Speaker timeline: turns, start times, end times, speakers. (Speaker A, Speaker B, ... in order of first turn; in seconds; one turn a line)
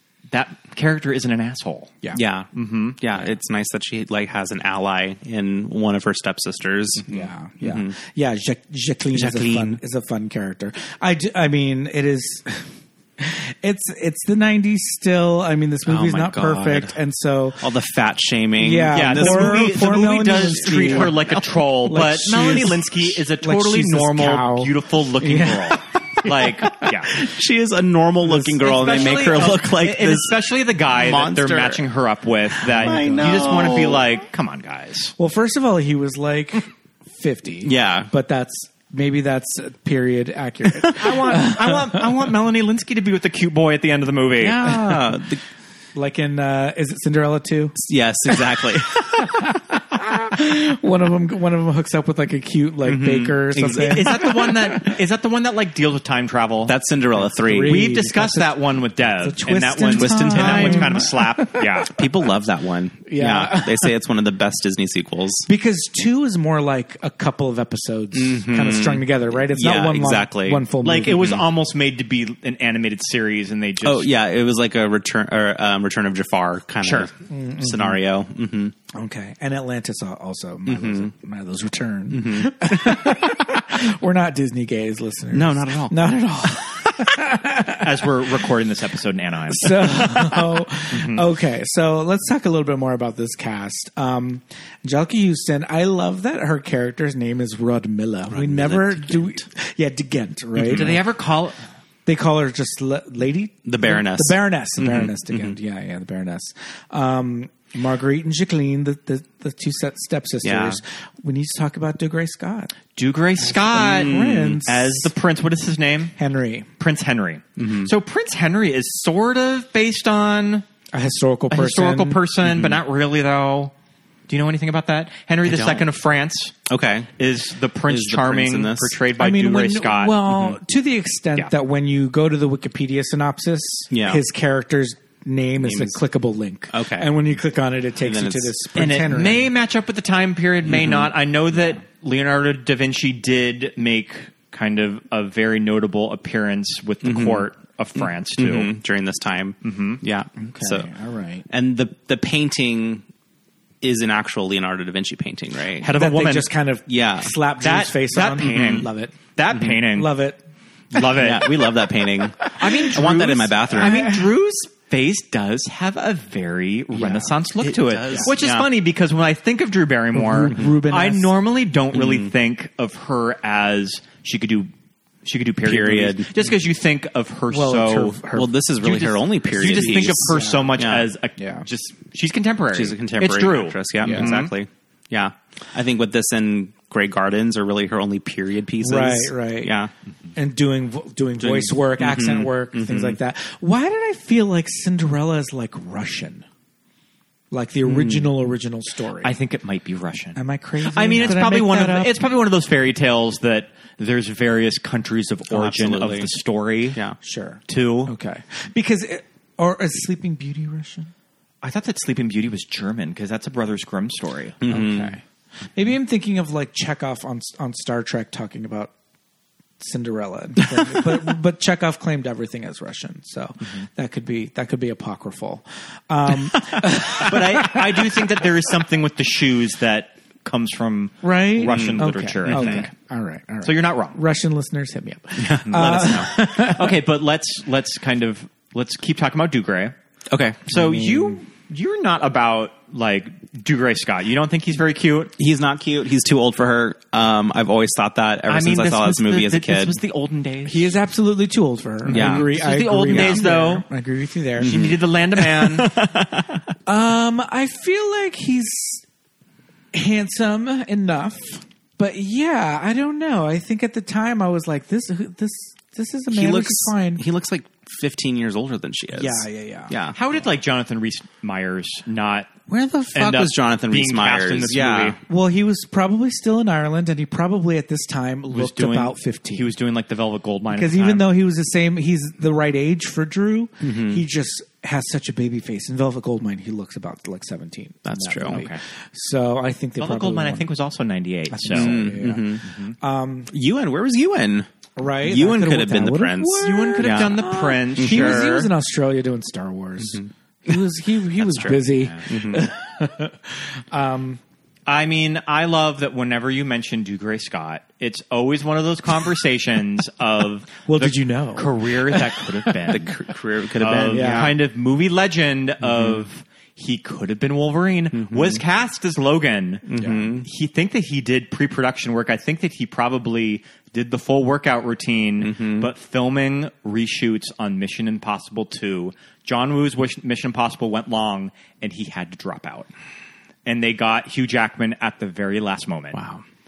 Speaker A: 0.3-2.0
Speaker B: 2.1-7.9
Speaker A: 2.5-3.0
Speaker C: 7.1-17.6
Speaker B: 9.1-9.8
Speaker B: 15.8-17.0
Speaker B: 17.6-21.1
Speaker C: 18.6-25.8
Speaker A: 18.9-27.2
Speaker B: 26.3-31.8
Speaker C: 28.2-28.8
Speaker A: 28.6-35.1
Speaker B: 32.6-34.1
Speaker C: 32.8-33.5
Speaker C: 35.2-42.0
Speaker B: 37.6-38.1
Speaker A: 41.0-44.7
Speaker B: 44.4-45.4
Speaker C: 45.9-54.9
Speaker B: 47.8-49.4
Speaker B: 52.8-54.5
Speaker A: 53.6-56.8
Speaker B: 56.6-57.9
Speaker C: 57.1-61.8
Speaker A: 57.6-62.0
Speaker B: 59.9-61.0
Speaker B: 61.9-65.5
Speaker C: 63.0-63.9
Speaker C: 65.5-71.3
Speaker B: 68.1-71.4
Speaker A: 70.8-74.1
Speaker B: 73.8-78.7
Speaker A: 76.8-77.1
Speaker C: 77.3-78.0
Speaker C: 78.9-88.0
Speaker B: 80.7-81.1
Speaker B: 82.1-83.4
Speaker B: 85.3-86.1
Speaker A: 87.8-91.2
Speaker C: 89.5-101.0
Speaker B: 98.3-99.5
Speaker B: 100.6-101.0
Speaker A: 100.6-101.6
Speaker C: 102.0-112.7
Speaker B: 103.6-105.6
Speaker B: 110.4-110.8
Speaker A: 112.9-116.1
Speaker C: 113.4-115.1
Speaker B: 113.8-114.5
Speaker C: 116.2-116.7
Speaker A: 116.8-120.7
Speaker B: 117.6-117.9
Speaker C: 120.9-122.2
Speaker A: 121.5-123.7
Speaker B: 122.4-122.8
Speaker A: 124.3-126.5
Speaker B: 125.4-125.9
Speaker B: 126.7-127.1
Speaker A: 127.2-130.2
Speaker B: 127.9-129.0
Speaker C: 129.2-139.5
Speaker B: 130.3-130.6
Speaker B: 133.9-134.2
Speaker B: 135.6-136.0
Speaker B: 136.7-137.1
Speaker B: 138.0-138.5
Speaker A: 138.8-148.7
Speaker B: 140.7-141.1
Speaker B: 147.0-147.5
Speaker B: 148.0-150.9
Speaker A: 149.6-150.0
Speaker C: 150.4-151.4
Speaker B: 151.5-153.0
Speaker B: 153.8-155.9
Speaker A: 155.8-156.5
Speaker C: 155.9-159.2
Speaker B: 156.9-157.3
Speaker A: 157.6-160.1
Speaker C: 159.9-160.4
Speaker A: 160.9-161.6
Speaker B: 161.1-164.1
Speaker A: 162.5-174.7
Speaker C: 163.8-164.3
Speaker B: 167.0-168.7
Speaker C: 170.1-171.3
Speaker B: 171.9-172.3
Speaker A: 175.2-178.2
Speaker B: 175.6-176.3
Speaker C: 177.5-178.5
Speaker B: 178.3-181.1
Speaker A: 178.8-184.5
Speaker C: 180.1-180.8
Speaker C: 181.4-181.7
Speaker B: 182.7-189.9
Speaker C: 184.0-184.3
Speaker C: 188.8-189.7
Speaker C: 190.3-196.4
Speaker B: 191.4-193.2
Speaker C: 197.5-199.3
Speaker B: 197.8-198.3
Speaker A: 199.2-207.0
Speaker C: 200.3-202.2
Speaker B: 205.5-206.3
Speaker C: 207.2-211.1
Speaker A: 207.7-208.1
Speaker A: 211.6-214.6
Speaker B: 214.6-215.1
Speaker C: 214.7-215.2
Speaker C: 215.7-218.9
Speaker C: 219.8-227.8
Speaker A: 227.1-232.9
Speaker C: 231.2-236.9
Speaker B: 231.6-232.9
Speaker A: 233.6-234.2
Speaker B: 235.4-236.3
Speaker A: 235.7-239.9
Speaker B: 240.3-240.7
Speaker A: 240.7-245.3
Speaker C: 240.7-241.4
Speaker B: 245.4-250.0
Speaker A: 248.5-250.9
Speaker C: 250.7-254.7
Speaker A: 252.1-253.8
Speaker B: 252.1-252.5
Speaker B: 253.1-253.5
Speaker A: 254.6-255.9
Speaker B: 254.6-256.6
Speaker C: 256.9-259.0
Speaker C: 259.9-267.2
Speaker B: 266.3-270.2
Speaker C: 269.1-269.9
Speaker A: 270.1-272.5
Speaker B: 272.7-275.2
Speaker A: 273.1-275.2
Speaker C: 275.3-279.7
Speaker A: 278.5-281.3
Speaker C: 280.7-290.7
Speaker B: 283.8-284.2
Speaker B: 288.0-288.6
Speaker A: 288.4-288.8
Speaker A: 290.0-292.9
Speaker C: 291.5-293.5
Speaker B: 291.7-292.6
Speaker B: 293.5-294.7
Speaker C: 294.9-304.4
Speaker B: 295.2-297.4
Speaker A: 296.6-298.7
Speaker B: 297.9-298.6
Speaker B: 300.0-300.8
Speaker B: 301.4-302.6
Speaker A: 301.8-302.2
Speaker A: 304.9-313.1
Speaker C: 310.9-312.7
Speaker B: 312.9-314.6
Speaker A: 313.8-332.9
Speaker C: 314.1-314.6
Speaker B: 315.8-316.2
Speaker B: 318.1-318.6
Speaker B: 319.9-320.4
Speaker C: 320.0-320.2
Speaker B: 325.4-325.9
Speaker A: 333.6-336.2
Speaker B: 336.1-336.4